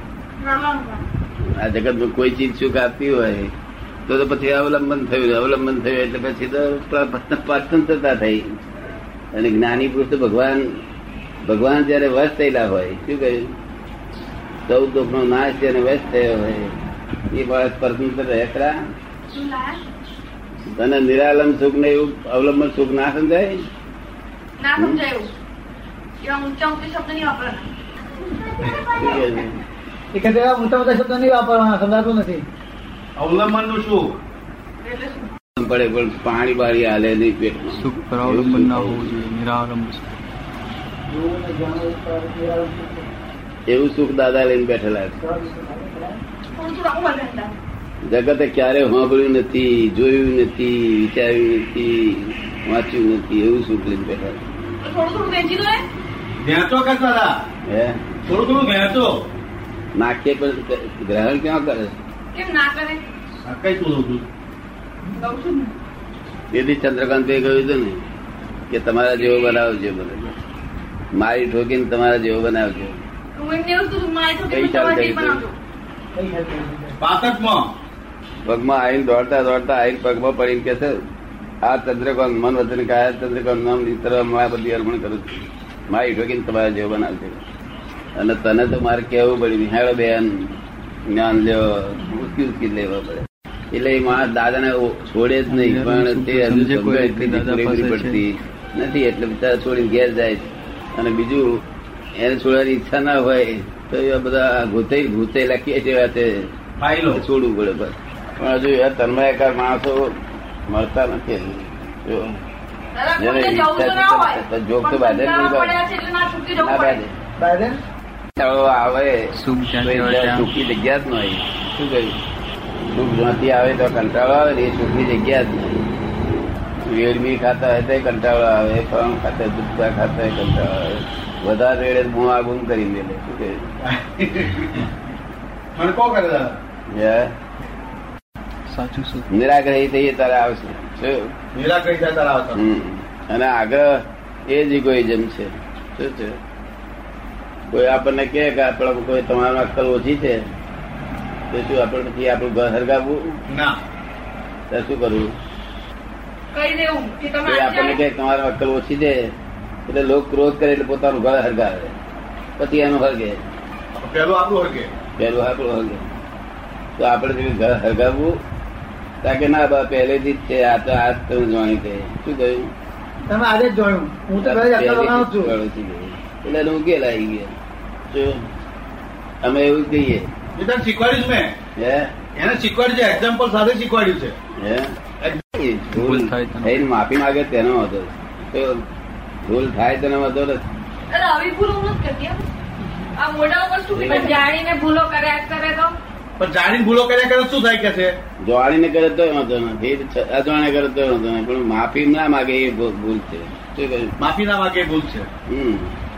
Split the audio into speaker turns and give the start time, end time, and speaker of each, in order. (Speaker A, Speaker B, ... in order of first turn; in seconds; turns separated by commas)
Speaker A: 0.4-1.0, Speaker B: 1.5-3.5, Speaker B: 4.1-8.6, Speaker B: 9.3-10.8, Speaker B: 11.4-13.5, Speaker B: 14.7-16.7, Speaker B: 17.3-18.8, Speaker A: 19.3-19.8, Speaker B: 20.7-23.6, Speaker A: 24.6-25.3, Speaker B: 24.8-25.0, Speaker A: 26.2-27.7, Speaker A: 28.5-29.4, Speaker B: 28.9-29.6, Speaker C: 30.1-32.5, Speaker D: 33.1-34.2, Speaker A: 34.8-35.3, Speaker B: 35.5-39.1, Speaker E: 37.8-40.1, Speaker C: 41.1-43.1, Speaker B: 43.7-45.2, Speaker C: 45.2-46.2, Speaker A: 46.5-47.6, Speaker B: 48.1-54.4, Speaker A: 54.8-55.9, Speaker D: 56.4-57.4, Speaker B: 57.6-58.0, Speaker D: 58.3-59.3, Speaker B: 59.9-61.9, Speaker A: 62.3-63.0, Speaker D: 63.4-64.3, Speaker A: 65.1-65.7, Speaker B: 66.5-68.0, Speaker B: 68.7-70.4, Speaker B: 71.2-73.0, Speaker A: 73.3-75.5, Speaker B: 74.5-75.4, Speaker C: 76.1-77.0, Speaker D: 77.0-77.7, Speaker B: 78.5-81.0, Speaker B: 81.6-87.4, Speaker B: 88.1-90.6, Speaker B: 91.1-101.5, Speaker E: 95.5-98.2, Speaker B: 102.2-106.5, Speaker D: 106.8-107.2, Speaker B: 107.1-110.2, Speaker B: 110.7-112.4, Speaker A: 112.9-117.0, Speaker B: 113.2-115.8, Speaker B: 116.5-117.2, Speaker C: 117.4-117.8, Speaker B: 118.3-119.2, Speaker E: 119.3-120.5, Speaker B: 119.8-122.2, Speaker B: 122.9-125.9, Speaker B: 126.9-133.6, Speaker D: 133.8-134.9, Speaker D: 135.7-136.6, Speaker B: 136.9-137.3, Speaker E: 138.7-139.3, Speaker B: 139.3-141.3, Speaker D: 141.5-142.6, Speaker B: 142.5-146.4, Speaker B: 147.7-150.4, Speaker B: 151.5-153.4, Speaker D: 153.5-153.8, Speaker B: 154.7-155.3, Speaker A: 156.5-158.0, Speaker B: 157.4-159.3, Speaker B: 159.9-162.0, Speaker B: 162.6-163.4, Speaker D: 163.9-164.9, Speaker B: 165.2-166.1, Speaker B: 167.0-168.4, Speaker B: 169.2-172.7, Speaker C: 173.3-175.6, Speaker B: 174.4-177.5, Speaker B: 178.1-178.4, Speaker B: 179.4-180.3, Speaker D: 180.5-181.6, Speaker B: 181.8-182.2, Speaker D: 182.3-184.4, Speaker B: 184.6-188.8, Speaker E: 185.9-186.9, Speaker B: 189.4-190.6, Speaker A: 191.1-192.4, Speaker A: 193.2-195.9, Speaker B: 194.0-194.4, Speaker D: 196.4-198.2, Speaker B: 198.4-204.1, Speaker D: 204.2-205.3, Speaker B: 205.5-205.9